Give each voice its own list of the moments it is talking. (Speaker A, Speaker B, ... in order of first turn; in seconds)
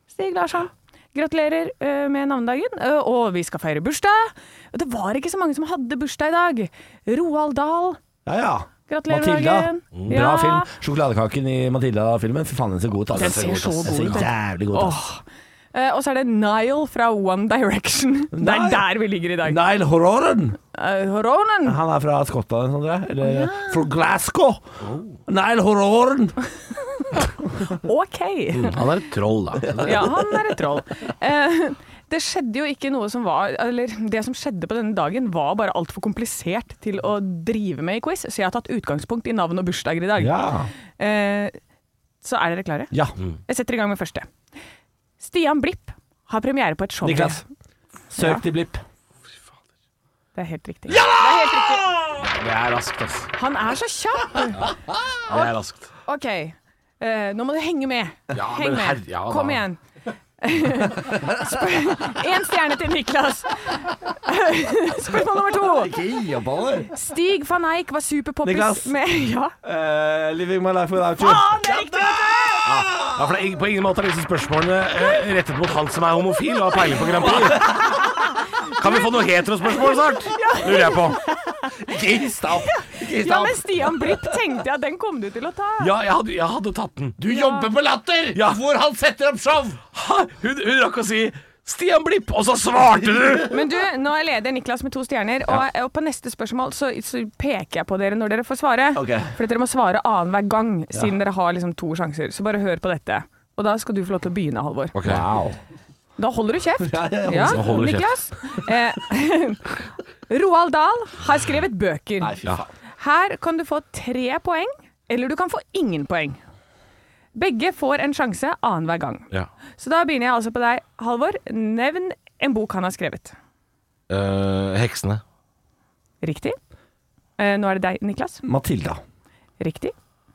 Speaker A: 0.1-8.0, 8.9-10.7, 13.1-19.6, 20.7-21.8, 23.2-23.8, 27.7-28.8, 29.8-40.4, 41.0-41.6, 42.2-42.9, 43.5-44.3, 45.2-47.4, 50.3-51.9, 53.4-54.7, 56.0-59.8, 60.4-66.0, 66.9-69.5, 71.2-72.7, 77.6-79.0, 80.1-81.7, 82.6-85.9, 87.3-87.7, 93.5-105.0, 106.2-109.7, 110.3-112.4, 113.0-116.4, 117.3-123.3, 126.2-126.6, 127.4-128.4, 129.6-129.9
Speaker B: 8.2-15.0, 18.3-18.9, 19.4-20.6, 21.6-24.7, 25.2-26.4, 40.2-40.7, 47.0-47.4, 48.1-48.8, 50.9-52.2, 61.0-61.6, 65.6-66.9, 68.4-68.9, 69.6-73.3, 77.2-77.9, 81.7-84.4, 87.2-89.8, 98.9-99.3, 105.0-105.6, 106.8-107.8, 112.2-112.7, 128.4-129.0
Speaker C: 13.1-14.2, 24.8-25.2, 28.5-30.1, 52.1-53.3, 54.6-55.9, 58.3-59.6, 72.6-77.8, 78.6-81.2, 85.8-87.2, 88.3-88.6, 89.9-93.6, 104.9-105.4, 107.5-108.1, 124.1-125.2